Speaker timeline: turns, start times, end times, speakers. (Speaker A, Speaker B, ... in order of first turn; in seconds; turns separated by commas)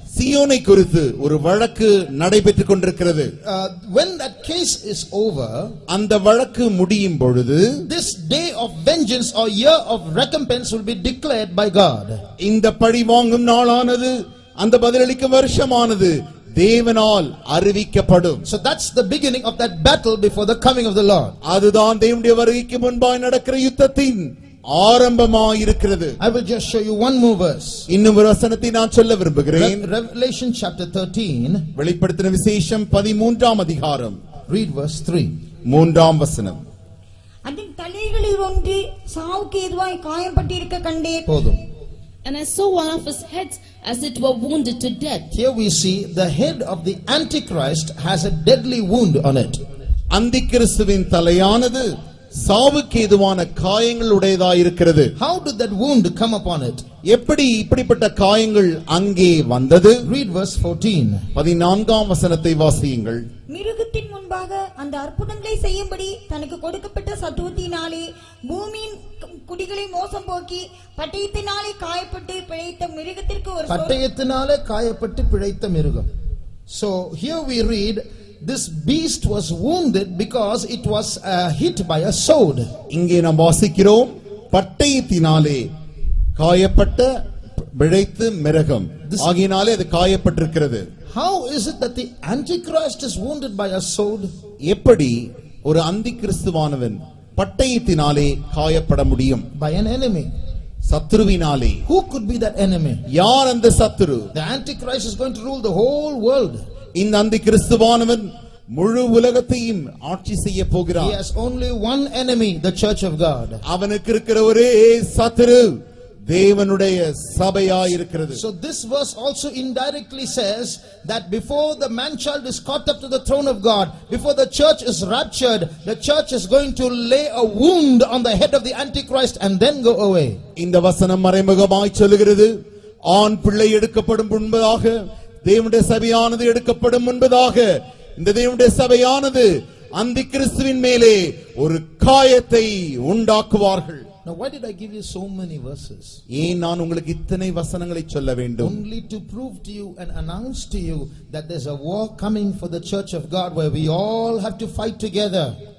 Speaker A: 0.1-3.3, Speaker B: 3.5-5.8, Speaker A: 5.9-7.9, Speaker B: 7.9-12.2, Speaker A: 12.4-18.4, Speaker B: 18.4-21.4, Speaker A: 21.4-26.2, Speaker B: 26.2-27.9, Speaker A: 27.9-29.9, Speaker B: 29.6-31.7, Speaker A: 31.8-34.2, Speaker B: 34.5-35.3, Speaker A: 35.7-36.6, Speaker C: 37.5-41.2, Speaker B: 41.3-41.6, Speaker D: 42.2-45.3, Speaker B: 45.3-49.6, Speaker A: 50.1-55.1, Speaker B: 55.2-56.8, Speaker A: 57.0-60.0, Speaker B: 60.0-61.2, Speaker A: 61.4-63.2, Speaker C: 63.5-74.0, Speaker B: 73.7-76.0, Speaker B: 76.7-82.7, Speaker A: 82.9-85.7, Speaker A: 86.4-87.1, Speaker A: 87.8-90.9, Speaker B: 91.1-94.3, Speaker A: 94.7-99.5, Speaker B: 99.5-100.3, Speaker A: 100.9-101.8, Speaker B: 101.9-103.0, Speaker A: 103.1-104.3, Speaker B: 104.3-106.6, Speaker A: 107.0-111.2, Speaker B: 111.0-113.6, Speaker A: 113.6-118.4, Speaker B: 118.3-130.4, Speaker A: 130.6-132.6, Speaker A: 133.1-144.1, Speaker B: 144.2-146.2, Speaker A: 146.3-148.8, Speaker B: 148.6-155.6